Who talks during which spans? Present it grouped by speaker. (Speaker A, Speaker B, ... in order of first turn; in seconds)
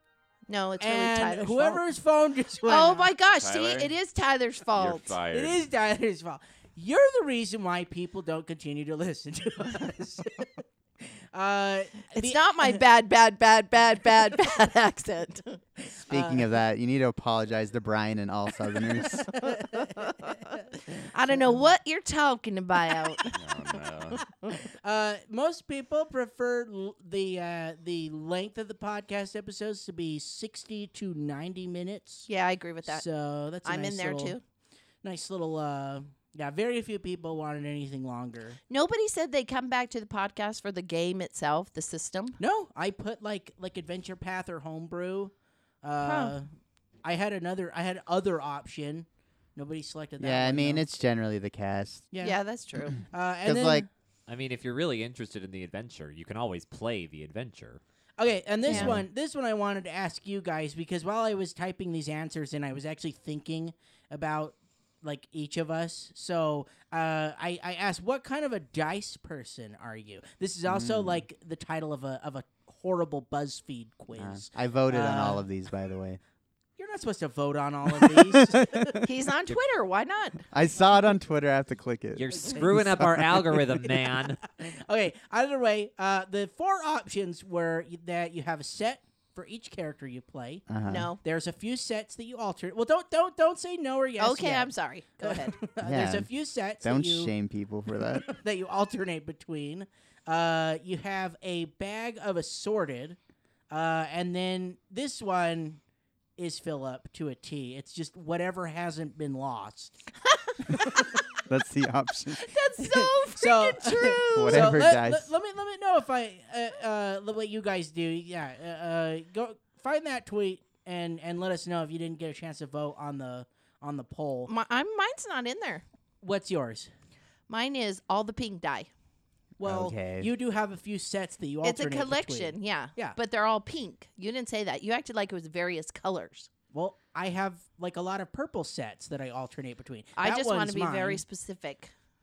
Speaker A: 0.5-1.8, 2.7-5.2, 12.1-15.6, 19.8-20.4, 21.1-23.4, 32.3-33.1, 33.6-34.4, 38.7-42.4, 46.0-46.4, 52.2-53.0, 58.7-58.9, 79.0-80.4, 90.9-91.2, 94.2-95.6, 112.3-114.8, 124.5-125.8, 127.5-128.9, 131.6-136.5, 140.2-141.9
Speaker B: 0.8-3.1, 5.3-12.8, 15.9-16.5, 19.3-20.6, 21.3-21.6, 24.8-32.3, 32.9-34.4, 35.0-38.6, 42.4-46.5, 47.0-50.9, 52.1-52.4, 53.1-53.9, 58.2-75.5, 76.8-79.1, 82.4-83.2, 84.6-90.7, 91.2-97.3, 98.1-103.2, 103.7-105.8, 106.4-110.0, 112.8-124.5, 126.2-126.9, 129.6-133.2, 136.7-141.2
Speaker C: 3.3-4.0, 4.7-5.6, 23.3-24.2
Speaker D: 16.1-19.3, 50.2-52.1, 53.5-53.9, 58.7-59.1, 70.7-71.2, 74.2-76.2, 80.5-83.3, 90.7-91.2, 95.8-96.3, 96.8-98.3, 111.5-112.5, 114.3-115.3, 129.6-130.3
Speaker E: 54.3-57.8, 82.2-84.4